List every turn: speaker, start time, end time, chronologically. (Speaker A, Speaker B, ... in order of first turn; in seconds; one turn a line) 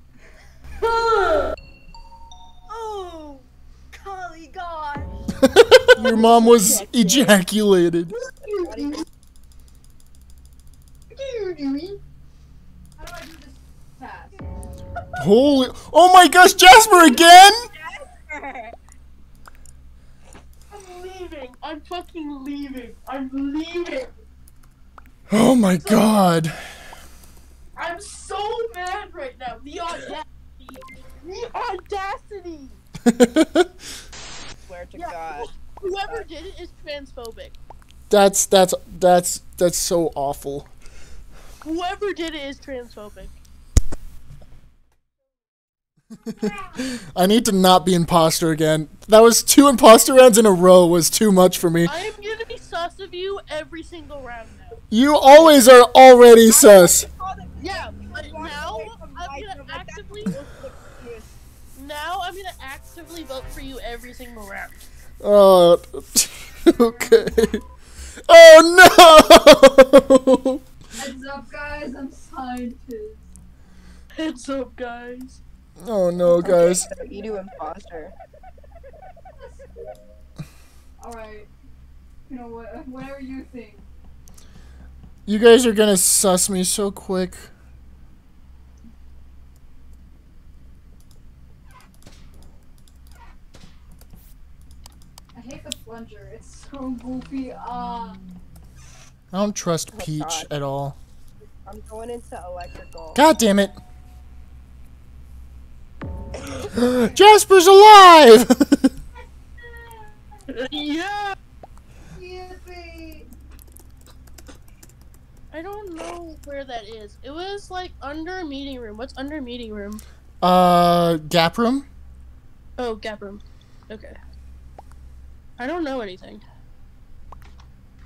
Speaker A: 2.7-5.3
Speaker B: 5.5-8.1
Speaker C: 6.0-7.3
Speaker D: 8.1-9.0
Speaker C: 8.4-9.0
Speaker D: 11.1-12.0
Speaker A: 13.0-14.7
Speaker B: 15.2-17.7
Speaker C: 17.0-18.8
Speaker D: 20.7-24.1
Speaker B: 25.3-26.7
Speaker D: 25.8-26.1
Speaker D: 27.8-32.8
Speaker B: 33.0-33.7
Speaker C: 34.6-35.5
Speaker D: 35.0-37.6
Speaker B: 38.1-40.7
Speaker D: 41.6-43.4
Speaker B: 46.4-51.9
Speaker D: 51.9-54.8
Speaker B: 54.9-57.1
Speaker C: 56.5-61.3
Speaker D: 57.6-60.4
Speaker D: 61.8-64.8
Speaker B: 65.2-67.6
Speaker B: 68.3-70.6
Speaker A: 71.0-73.3
Speaker D: 74.2-75.4
Speaker B: 75.8-76.9
Speaker C: 76.3-78.1
Speaker A: 76.9-77.4
Speaker A: 79.4-79.7
Speaker A: 81.0-81.5
Speaker A: 82.3-83.9
Speaker B: 85.3-87.5
Speaker A: 95.3-98.2
Speaker B: 99.3-101.0
Speaker C: 99.9-100.5
Speaker C: 101.7-103.2
Speaker B: 103.2-103.8
Speaker B: 106.7-108.9
Speaker A: 106.8-107.3
Speaker A: 109.6-110.4
Speaker D: 110.5-111.4
Speaker A: 112.2-113.3
Speaker D: 115.5-120.0
Speaker B: 120.4-121.9
Speaker D: 122.8-124.2
Speaker D: 125.6-126.4